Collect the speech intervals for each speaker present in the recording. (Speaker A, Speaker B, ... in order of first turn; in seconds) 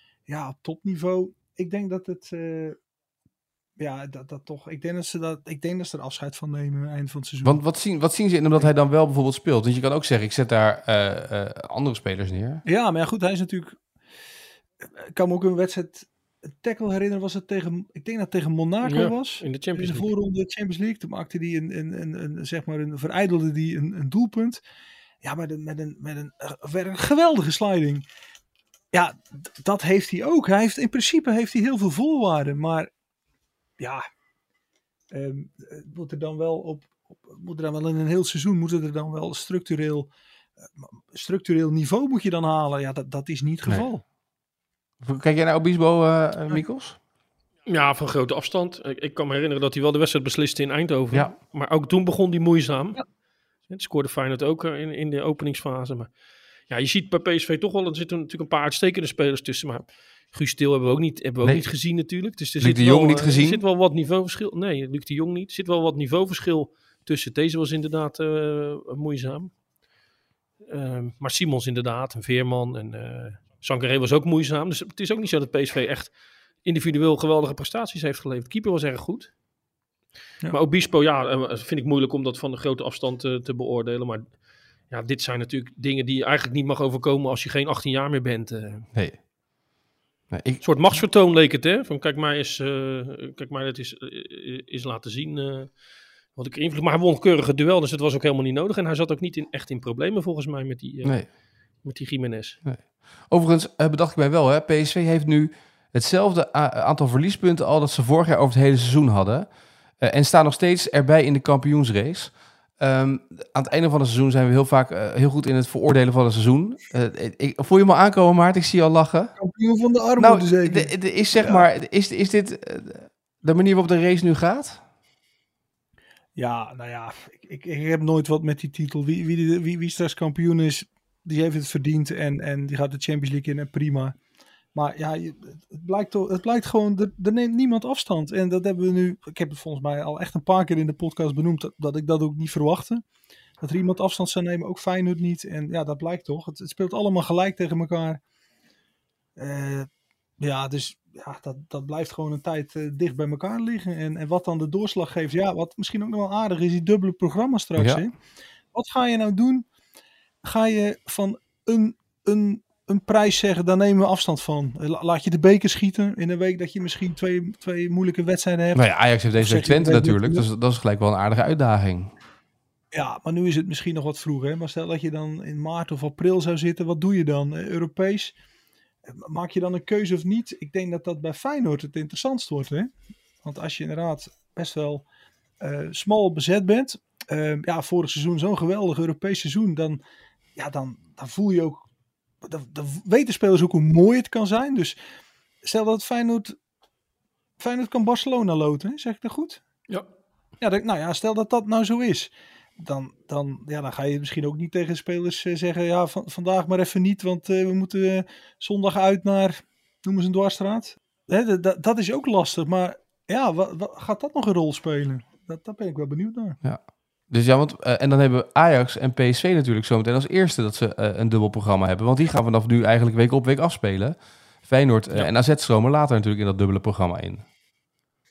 Speaker A: 0.3-2.8, 3.8-7.6, 12.6-13.8, 15.0-16.1, 16.6-24.6, 25.2-28.1, 28.9-32.9, 35.1-40.1, 40.8-44.0, 119.4-121.7, 126.3-134.2, 134.7-143.0, 143.6-148.2, 149.4-149.9, 150.4-158.1, 158.7-159.7, 160.4-168.8, 169.4-170.4, 172.9-178.3, 179.1-182.9, 183.4-185.0, 185.6-190.0, 190.6-191.8, 192.4-195.0, 195.6-196.6, 197.6-199.6, 200.6-216.6
Speaker B: 7.4-12.6, 45.0-47.0, 61.4-61.7, 62.6-63.6, 88.9-89.2, 90.3-91.0, 101.0-101.3, 102.6-109.5, 110.0-119.3, 120.2-124.8, 168.7-172.1, 216.6-227.4
Speaker C: 18.8-20.1, 47.7-53.0, 53.7-56.1, 56.7-69.5, 70.7-79.3, 80.5-88.8, 90.6-95.7, 96.3-101.2, 101.8-102.6